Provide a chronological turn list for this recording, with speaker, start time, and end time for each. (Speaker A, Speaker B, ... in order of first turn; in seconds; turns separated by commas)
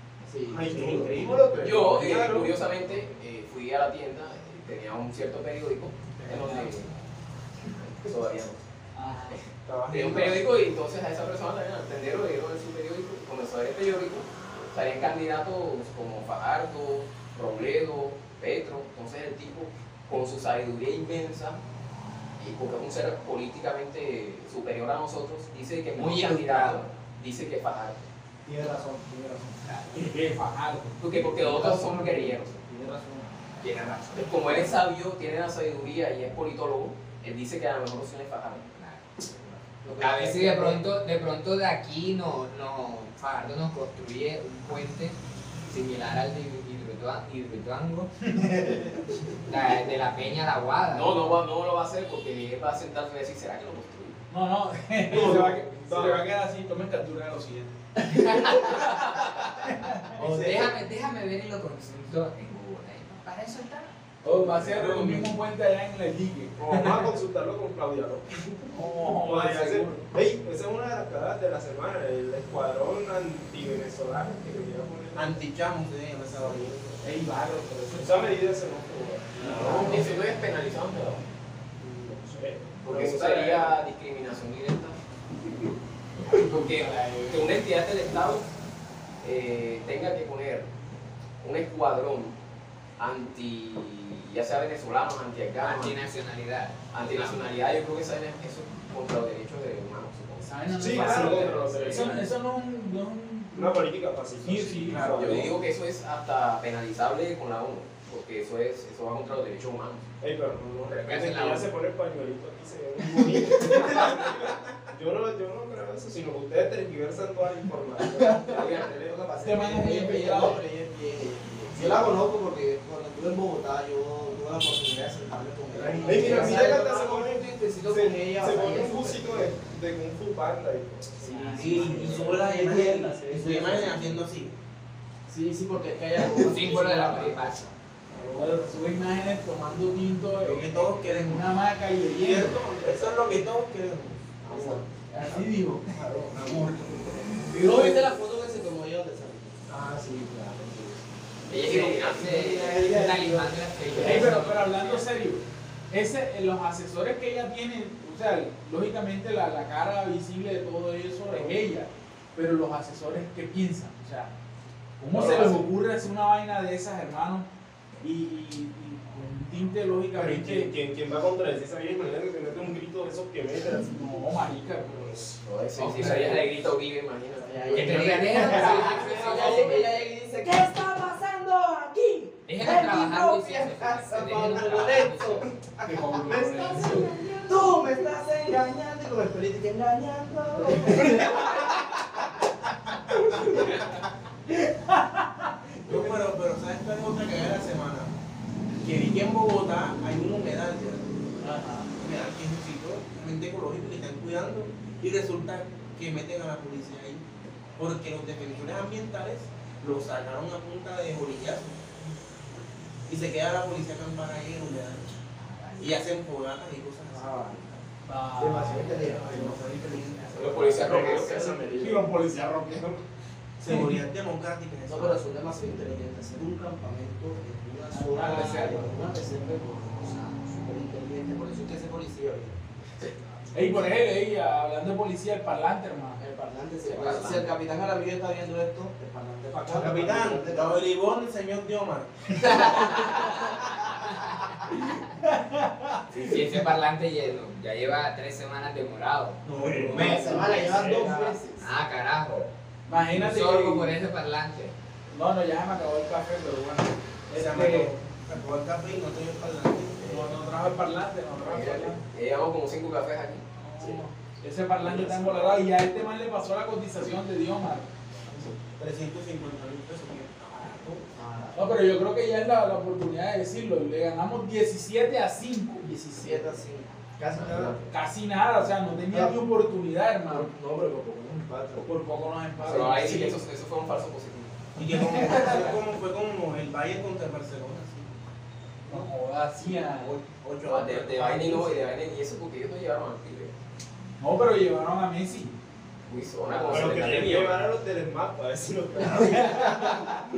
Speaker A: 0.3-1.4, Speaker B: 0.5-2.6, Speaker C: 0.7-1.7, Speaker D: 1.6-6.9, Speaker E: 6.3-6.8, Speaker D: 7.8-8.6, Speaker E: 8.9-9.4, Speaker D: 9.3-21.6, Speaker B: 9.7-10.4, Speaker C: 9.9-10.4, Speaker D: 22.4-28.1, Speaker F: 26.0-26.9, Speaker A: 28.4-29.6, Speaker F: 29.6-30.0, Speaker E: 29.9-31.0, Speaker D: 31.0-32.5, Speaker A: 31.3-33.3, Speaker F: 33.6-34.7, Speaker D: 34.1-38.7, Speaker F: 38.7-39.0, Speaker A: 39.8-40.8, Speaker F: 39.9-45.2, Speaker F: 45.7-48.1, Speaker E: 48.3-48.9, Speaker F: 49.5-51.4, Speaker D: 50.9-54.2, Speaker E: 54.3-58.9, Speaker B: 55.1-56.3, Speaker F: 58.0-64.0, Speaker E: 59.7-60.2, Speaker C: 60.2-60.7, Speaker A: 60.2-60.7, Speaker E: 64.2-67.1, Speaker C: 64.7-65.3, Speaker B: 66.6-75.4, Speaker E: 68.7-70.1, Speaker C: 75.1-76.8, Speaker B: 76.3-77.1, Speaker E: 77.0-78.4, Speaker B: 77.9-80.1, Speaker D: 79.4-81.2, Speaker A: 79.5-80.0, Speaker E: 79.5-80.0, Speaker B: 81.8-83.8, Speaker D: 82.8-85.0, Speaker F: 86.2-87.6, Speaker D: 86.3-88.5, Speaker D: 89.2-90.7, Speaker D: 91.4-92.3, Speaker D: 93.0-96.0, Speaker F: 95.6-97.5, Speaker D: 96.9-102.2, Speaker E: 100.4-103.8, Speaker B: 100.8-102.3, Speaker B: 103.5-105.6, Speaker E: 104.4-105.4, Speaker D: 105.1-110.0, Speaker B: 110.2-119.2, Speaker F: 110.8-111.7, Speaker A: 113.6-114.3, Speaker A: 118.1-129.5, Speaker D: 118.5-118.9, Speaker E: 119.4-120.6, Speaker B: 125.8-132.6, Speaker C: 125.9-126.7, Speaker E: 131.2-133.3, Speaker C: 131.5-134.6, Speaker A: 131.7-134.1, Speaker A: 135.3-137.7, Speaker F: 136.3-137.6, Speaker B: 138.1-138.6, Speaker E: 138.3-142.7, Speaker C: 140.4-141.5, Speaker C: 142.2-144.8, Speaker B: 142.9-143.4, Speaker A: 143.0-143.3, Speaker A: 144.4-146.8, Speaker E: 145.1-146.0, Speaker C: 146.3-147.1, Speaker A: 147.4-149.7, Speaker B: 149.7-150.8, Speaker D: 151.5-152.5, Speaker F: 151.5-155.1, Speaker A: 151.6-154.4, Speaker E: 154.0-164.3, Speaker E: 165.0-167.5, Speaker B: 165.1-165.6, Speaker D: 165.2-165.5, Speaker E: 168.0-170.7, Speaker B: 170.1-175.3, Speaker E: 173.9-176.4, Speaker D: 175.4-177.9, Speaker A: 177.4-192.0, Speaker F: 177.7-180.0, Speaker B: 178.5-179.7, Speaker F: 182.5-185.5, Speaker E: 185.8-187.1, Speaker E: 194.5-196.1, Speaker C: 195.8-198.2, Speaker C: 198.8-201.1, Speaker E: 201.4-201.9, Speaker C: 201.9-207.2, Speaker C: 207.8-211.8, Speaker C: 213.1-215.2, Speaker F: 215.4-216.0, Speaker C: 215.8-217.8, Speaker A: 217.1-217.7, Speaker E: 218.1-219.2, Speaker A: 218.4-221.9, Speaker C: 218.9-221.2, Speaker D: 220.3-221.5, Speaker B: 220.6-222.1, Speaker E: 221.8-223.0, Speaker C: 223.6-225.2, Speaker E: 223.7-224.0, Speaker A: 224.9-232.6, Speaker E: 227.9-228.9, Speaker F: 228.3-228.6, Speaker E: 233.5-236.2, Speaker A: 233.5-233.9, Speaker A: 236.2-240.9, Speaker D: 236.9-237.5, Speaker C: 239.6-243.1, Speaker F: 242.4-244.1, Speaker E: 244.7-246.7, Speaker F: 246.1-249.4, Speaker C: 249.4-251.2, Speaker B: 249.6-251.4, Speaker A: 249.9-251.7, Speaker F: 251.6-252.5, Speaker E: 252.9-254.0, Speaker F: 253.1-254.7, Speaker E: 255.1-258.0, Speaker C: 257.3-260.4, Speaker E: 260.0-262.0, Speaker D: 261.4-263.4, Speaker E: 263.6-267.9, Speaker C: 264.9-265.6, Speaker C: 268.6-271.1, Speaker A: 271.1-271.7, Speaker E: 271.6-276.5, Speaker A: 276.1-277.8, Speaker E: 277.9-280.5, Speaker A: 279.1-279.4, Speaker A: 280.3-281.9, Speaker E: 281.8-283.4, Speaker D: 282.6-284.6, Speaker C: 284.8-288.1, Speaker E: 284.8-285.8, Speaker E: 288.9-290.2, Speaker C: 289.6-292.0, Speaker D: 290.6-293.6, Speaker E: 294.2-295.5, Speaker D: 296.1-297.7, Speaker B: 296.7-300.0, Speaker E: 299.1-300.2